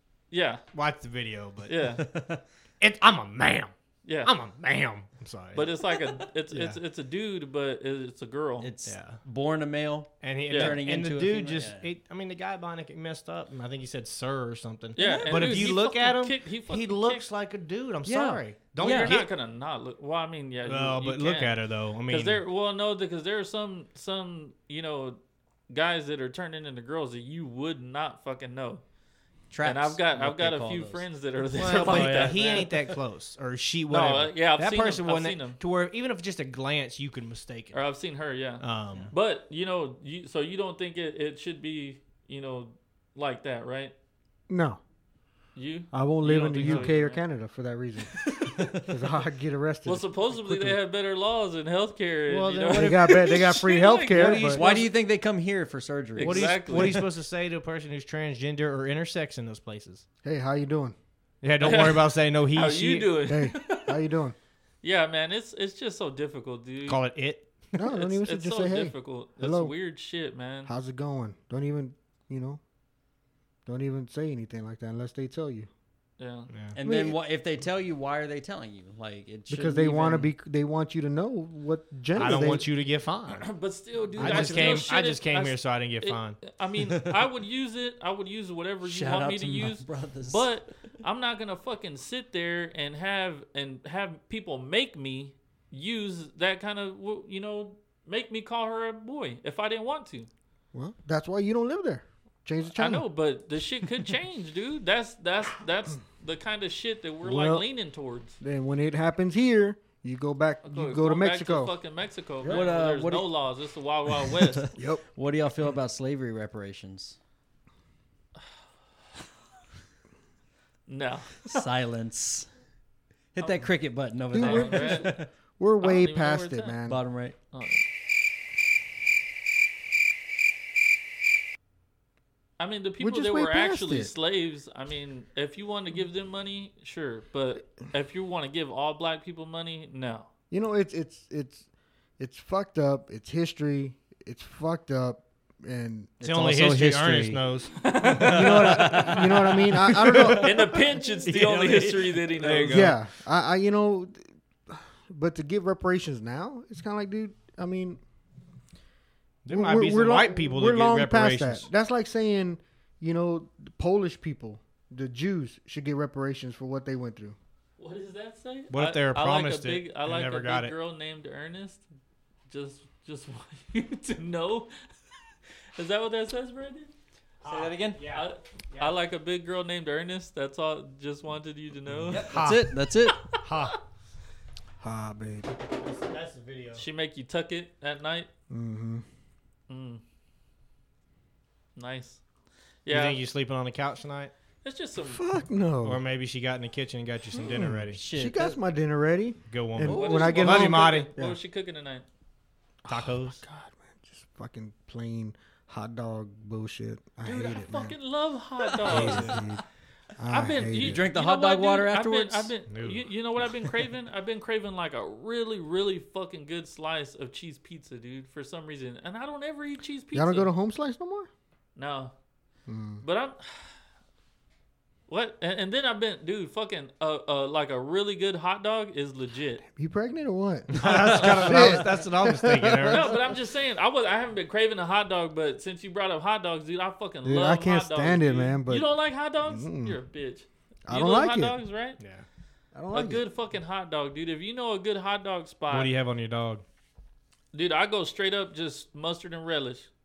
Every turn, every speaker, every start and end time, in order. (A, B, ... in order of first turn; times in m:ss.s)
0:00.3-0:00.6 A
0:00.7-0:02.0 B
0:01.6-0:02.0 A
0:02.1-0:02.4 C
0:02.8-0:03.7 B
0:04.0-0:04.3 A
0:04.2-0:05.7 B
0:05.5-0:08.7 A
0:06.5-0:06.8 B
0:08.6-0:11.9 C
0:08.8-0:09.2 B
0:10.2-0:19.3 B
0:10.5-0:10.8 A
0:15.0-0:15.7 C
0:15.0-0:17.2 A
0:18.0-0:19.2 C
0:18.8-0:28.8 A
0:20.6-0:22.4 B
0:29.5-0:31.0 C
0:29.6-0:32.7 A
0:31.6-0:37.8 B
0:31.6-0:33.0 C
0:33.9-0:35.6 A
0:37.7-0:43.9 A
0:38.6-0:39.1 B
0:44.5-0:44.8 D
0:45.6-0:47.2 A
0:45.9-0:50.8 D
0:46.6-0:46.9 B
0:48.3-0:48.9 C
0:49.8-0:54.8 A
0:52.3-0:53.4 B
0:52.7-0:54.6 D
0:54.1-0:54.9 B
0:54.2-0:57.0 C
0:56.2-0:57.0 A
0:56.2-1:00.0 B
1:00.2-1:00.9 D
1:01.4-1:03.2 B
1:01.6-1:03.9 A
1:03.3-1:04.3 D
1:04.8-1:07.0 A
1:06.9-1:07.6 B
1:07.8-1:09.7 D
1:07.9-1:10.7 A
1:10.6-1:12.6 D
1:13.6-1:15.7 D
1:16.2-1:16.5 A
1:16.5-1:16.8 B
1:16.7-1:20.3 C
1:16.8-1:17.2 D
1:19.5-1:22.7 D
1:22.1-1:23.5 B
1:23.3-1:40.3 A
1:24.2-1:26.4 B
1:24.2-1:24.7 D
1:28.8-1:30.5 C
1:40.7-1:43.0 D
1:42.7-1:48.4 A
1:47.2-1:47.6 D
1:48.4-1:51.7 D
1:50.6-1:54.7 A
1:52.4-1:53.3 C
1:54.7-1:55.0 D
1:55.1-1:57.2 C
2:00.9-2:01.6 A
2:01.4-2:02.5 C
2:03.3-2:05.3 C
2:04.3-2:07.0 D
2:04.3-2:05.2 A
2:05.8-2:06.8 A
2:06.8-2:07.3 C
2:07.5-2:07.8 A
2:12.6-2:20.3 A
2:13.0-2:14.1 D
2:20.5-2:21.6 D
2:22.2-2:27.4 D
2:26.2-2:30.6 B
2:27.8-2:29.3 A
2:28.2-2:30.8 D
2:28.2-2:30.5 C
2:30.4-2:32.9 A
2:31.3-2:32.0 C
2:31.3-2:33.0 B
2:32.7-2:38.0 D
2:39.4-2:41.7 B
2:39.5-2:47.4 D
2:47.8-2:51.8 A
2:48.7-2:50.7 B
2:52.5-2:54.7 A
2:55.8-2:56.9 A
2:57.4-2:59.0 B
2:57.4-2:58.0 C
2:58.1-3:02.3 A
3:01.9-3:03.8 B
3:02.1-3:03.2 C
3:03.0-3:03.4 A
3:04.8-3:05.5 D
3:05.6-3:06.8 B
3:06.7-3:08.3 A
3:08.5-3:09.0 D
3:09.7-3:10.0 A
3:11.8-3:12.2 A
3:12.8-3:13.2 A
3:12.9-3:14.3 B
3:14.6-3:15.2 A
3:15.0-3:16.0 D
3:15.8-3:18.0 B
3:17.4-3:21.4 D
3:17.9-3:18.6 C
3:19.5-3:21.1 B
3:19.9-3:20.4 C
3:19.9-3:22.0 A
3:22.8-3:27.9 D
3:22.9-3:23.4 B
3:27.2-3:29.4 A
3:28.8-3:29.6 D
3:28.8-3:29.5 B
3:30.2-3:31.0 D
3:30.3-3:40.5 A
3:30.8-3:32.5 C
3:32.7-3:33.0 B
3:40.1-3:41.3 D
3:41.8-3:42.1 A
3:42.7-3:43.0 D
3:43.0-3:43.7 A
3:45.1-3:49.6 A
3:49.6-3:53.2 D
3:50.7-3:53.2 B
3:50.8-3:51.5 C
3:51.1-3:51.6 A
3:52.8-4:02.0 A
3:57.2-3:58.9 D
3:59.4-4:00.0 D
4:00.9-4:01.6 D
4:02.0-4:02.2 B
4:02.7-4:03.2 D
4:02.9-4:05.9 A
4:05.7-4:06.6 B
4:07.5-4:09.9 A